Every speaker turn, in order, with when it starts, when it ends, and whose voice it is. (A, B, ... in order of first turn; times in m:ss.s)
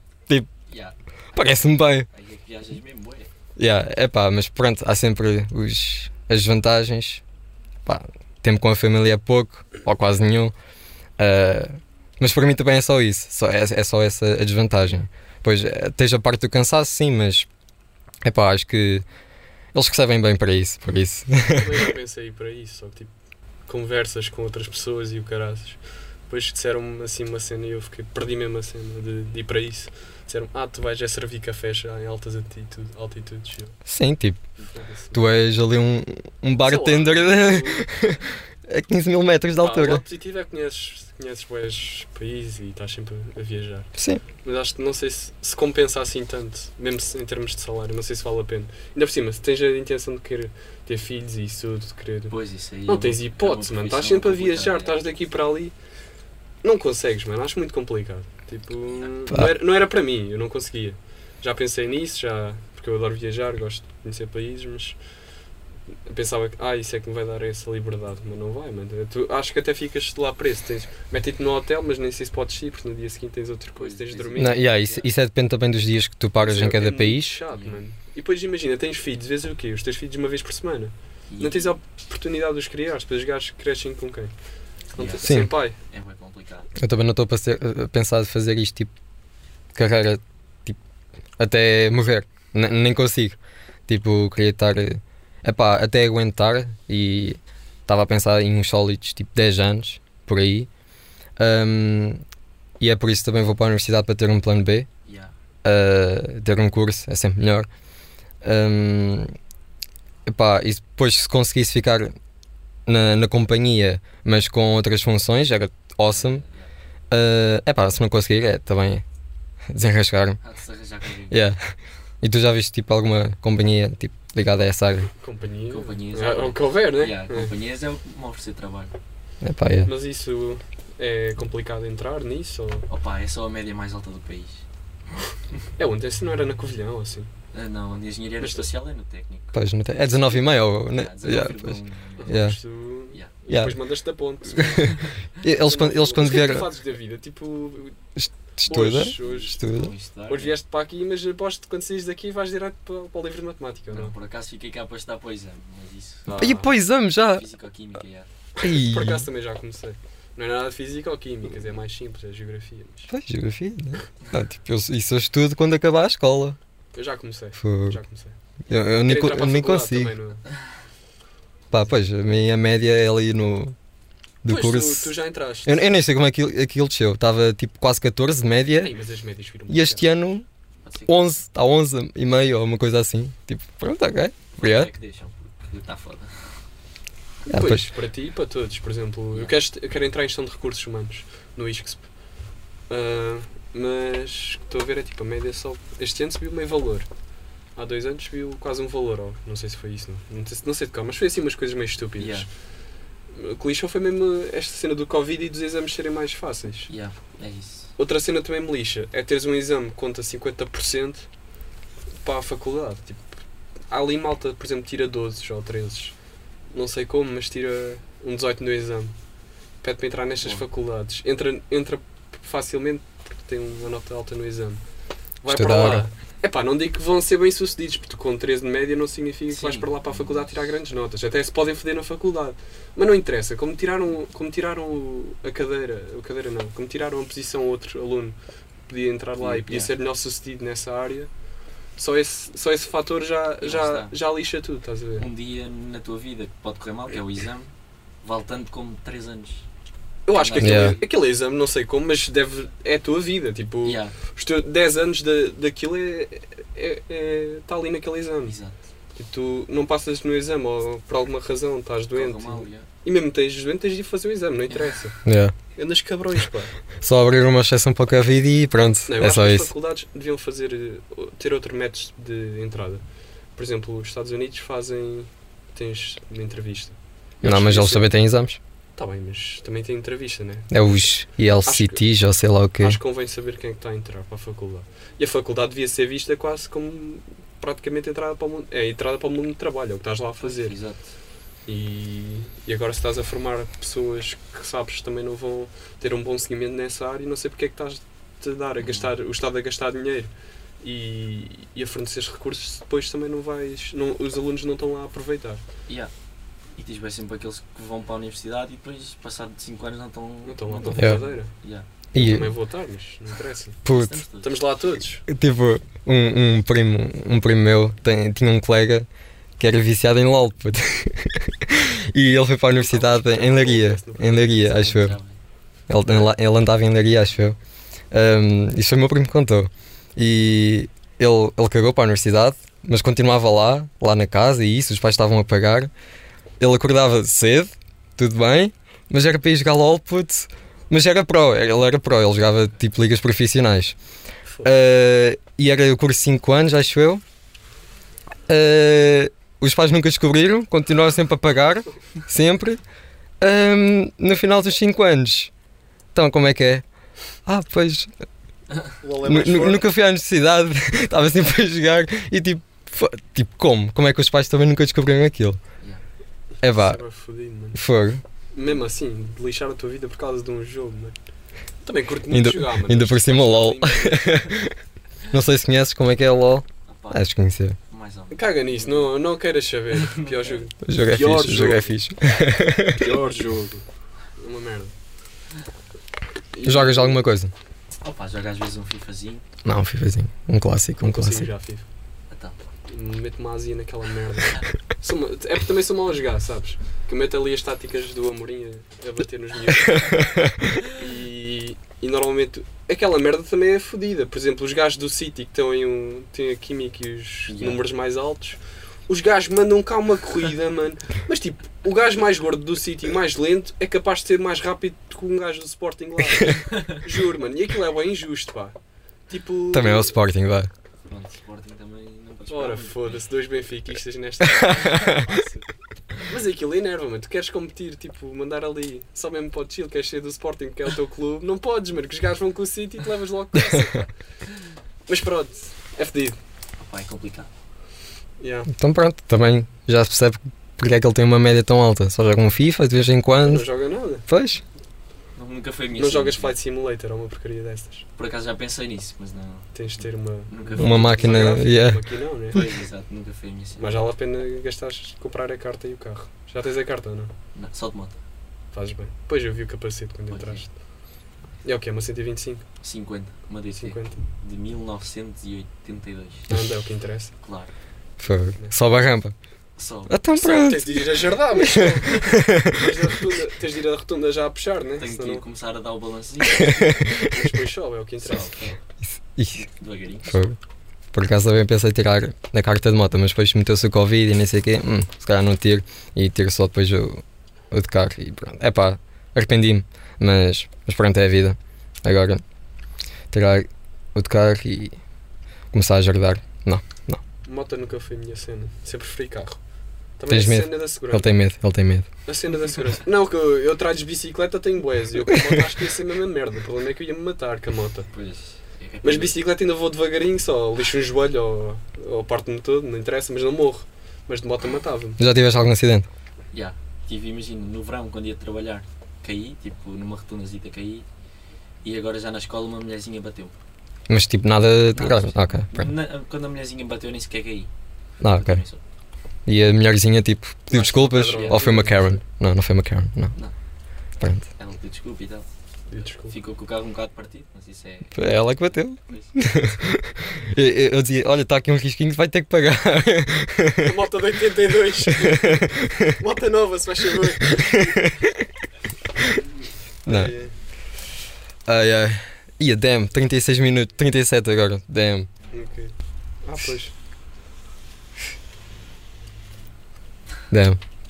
0:00.7-0:03.3 A
0:01.3-0:02.1 B
0:03.6-0:07.2 B
0:07.8-0:10.5 B
0:11.2-0:17.5 B
0:18.2-0:19.0 B
0:19.7-0:21.8 B
0:21.5-0:23.1 C
0:23.7-0:33.8 C
0:33.9-0:34.4 B
0:34.6-0:35.3 C
0:35.1-0:40.0 B
0:36.6-0:37.9 C
0:39.6-0:43.9 C
0:44.0-0:44.2 B
0:44.4-0:52.3 C
0:52.3-0:55.0 A
0:52.9-0:55.7 C
0:56.6-1:05.0 C
1:06.1-1:14.6 C
1:13.8-1:15.1 A
1:14.4-1:17.4 B
1:16.4-1:24.3 C
1:17.5-1:17.8 A
1:21.3-1:21.8 A
1:24.9-1:25.8 C
1:25.0-1:26.7 A
1:25.2-1:25.5 B
1:26.8-1:28.9 B
1:29.7-1:30.8 B
1:31.4-1:40.7 B
1:41.4-1:42.2 B
1:42.8-1:44.9 B
1:45.0-1:45.3 A
1:45.6-1:47.7 B
1:48.4-1:49.3 B
1:50.3-1:52.1 B
1:52.8-1:56.4 B
1:56.1-1:56.7 A
1:57.1-1:59.0 B
1:59.7-2:00.4 B
2:00.4-2:01.5 A
2:01.3-2:05.1 B
2:05.2-2:07.5 C
2:05.7-2:08.9 A
2:09.4-2:09.9 B
2:09.8-2:12.9 C
2:12.9-2:14.6 A
2:15.8-2:17.3 C
2:17.5-2:19.6 A
2:18.4-2:18.6 C
2:19.5-2:22.6 B
2:20.8-2:22.6 A
2:22.2-2:28.0 C
2:23.5-2:23.8 B
2:24.5-2:26.7 B
2:28.2-2:29.9 B
2:28.6-2:29.6 C
2:29.2-2:30.6 A
2:30.3-2:34.1 C
2:33.9-2:36.4 A
2:36.3-2:36.7 C
2:36.4-2:37.4 B
2:37.3-2:38.3 A
2:38.6-2:43.1 C
2:38.6-2:39.2 B
2:43.1-2:46.6 B
2:46.9-2:48.3 C
2:47.6-2:48.0 B
2:48.7-2:50.1 B
2:49.0-2:50.4 C
2:51.7-2:53.7 B
2:54.4-2:55.1 B
2:54.4-2:55.8 C
2:55.6-2:58.9 B
2:58.8-3:00.1 C
2:59.7-3:00.4 B
3:00.8-3:01.2 A
3:01.1-3:04.9 B
3:04.6-3:06.5 A
3:07.4-3:12.0 C
3:07.5-3:07.8 B
3:12.9-3:17.1 C
3:17.8-3:22.5 C
3:22.2-3:22.5 A
3:23.3-3:26.9 C
3:26.9-3:27.9 A
3:28.0-3:31.3 C
3:32.2-3:33.2 C
3:33.9-3:36.1 C
3:36.7-3:39.1 C
3:39.8-3:44.8 C
3:40.4-3:40.6 A
3:45.4-3:58.4 C
3:45.5-3:46.1 B
3:49.5-3:50.6 A
3:58.9-4:01.3 C
3:59.4-3:59.9 A
4:02.0-4:05.3 C
4:03.6-4:04.2 A
4:05.2-4:07.7 A
4:08.2-4:09.6 A
4:10.2-4:18.6 C
4:10.3-4:11.1 A
4:10.6-4:11.0 B
4:13.8-4:14.1 A
4:18.4-4:18.8 A
4:19.2-4:25.2 C
4:22.1-4:22.9 A
4:25.2-4:25.6 B
4:25.7-4:26.7 C
4:27.0-4:29.7 B
4:29.1-4:33.0 C
4:33.6-4:38.1 C
4:37.4-4:38.6 B
4:39.0-4:40.8 C
4:40.7-4:43.0 B
4:41.6-4:42.0 C
4:42.8-4:50.8 C
4:50.4-4:51.0 A
4:51.7-5:05.6 C
4:58.8-4:59.1 A
5:06.8-5:11.9 A
5:10.4-5:11.5 C
5:12.1-5:12.5 B
5:12.1-5:13.8 C
5:13.8-5:14.2 B
5:13.9-5:14.6 A
5:14.4-5:15.2 C
5:15.3-5:19.1 B
5:19.6-5:25.2 B
5:22.7-5:24.6 C
5:24.3-5:25.4 A
5:25.9-5:27.6 B
5:28.1-5:35.9 B
5:36.6-5:44.0 B
5:44.6-5:47.2 B
5:48.5-5:52.8 B
5:53.4-5:55.5 B
5:56.1-5:56.8 B
5:57.4-5:58.1 B
5:59.0-5:59.8 C
5:59.2-6:05.6 B
6:06.6-6:07.0 B
6:06.6-6:07.8 C
6:07.7-6:08.2 B
6:08.5-6:11.1 C
6:11.8-6:14.5 C
6:12.3-6:14.7 B
6:15.3-6:17.8 B
6:16.9-6:17.2 A
6:17.9-6:19.1 A
6:18.3-6:22.0 C
6:20.0-6:20.6 A
6:20.8-6:23.1 B
6:22.9-6:23.8 C
6:24.4-6:24.9 C
6:26.5-6:27.2 C
6:26.6-6:27.5 B
6:28.0-6:29.4 A
6:29.6-6:31.5 B
6:31.0-6:31.8 C
6:32.3-6:32.6 A
6:32.9-6:40.2 C
6:40.0-6:40.7 B
6:40.9-6:58.8 C
6:47.5-6:47.8 A
6:56.6-6:57.0 A
6:59.3-7:00.1 C
6:59.7-7:00.7 B
7:01.0-7:03.0 A
7:02.5-7:05.6 C
7:04.6-7:05.2 B
7:06.2-7:14.1 C
7:15.1-7:16.4 C
7:16.8-7:17.5 A
7:18.4-7:18.7 C
7:18.7-7:23.7 B
7:23.4-7:24.2 C
7:24.3-7:24.6 B
7:25.4-7:26.6 A
7:26.0-7:28.0 C
7:28.2-7:31.6 A
7:29.7-7:32.6 C
7:30.8-7:32.0 B
7:32.5-7:34.0 A
7:33.8-7:37.3 C
7:37.5-7:38.2 A
7:38.7-7:40.7 C
7:40.3-7:40.6 A
7:41.6-7:42.6 C
7:42.8-7:46.6 A
7:43.7-7:44.2 C
7:46.5-7:47.3 C
7:47.4-7:47.7 A
7:48.2-7:49.3 B
7:49.8-7:50.2 A
7:50.1-7:53.0 B
7:50.4-7:55.4 C
7:55.0-7:56.8 A
7:56.5-7:57.5 B
7:57.2-7:58.8 C
7:58.2-7:58.8 A
7:59.0-7:59.6 B
7:59.6-8:00.4 A
8:00.3-8:00.6 B
8:01.1-8:12.4 B
8:13.3-8:15.0 B
8:15.7-8:17.2 B
8:17.4-8:19.6 C
8:20.2-8:21.3 C
8:20.3-8:22.1 B
8:22.2-8:28.1 C
8:28.1-8:29.4 A
8:29.0-8:35.2 C
8:35.2-8:36.1 B
8:36.5-8:41.0 A
8:41.8-8:43.5 A
8:44.1-8:45.9 B
8:44.9-8:47.7 A
8:48.2-8:48.6 B
8:48.2-8:48.8 A
8:49.4-8:53.3 B
8:50.7-8:52.2 C
8:51.3-8:51.6 A
8:54.2-8:54.4 B
8:54.6-8:55.4 A
8:55.9-8:56.3 C
8:56.3-8:58.2 A
8:58.1-9:03.9 B
8:59.1-8:59.4 A
9:03.8-9:08.0 C
9:05.1-9:06.1 B
9:07.6-9:08.1 B
9:10.0-9:10.5 C
9:10.0-9:10.3 B
9:11.6-9:15.3 B
9:15.5-9:15.9 C
9:16.4-9:16.9 C
9:20.5-9:20.8 B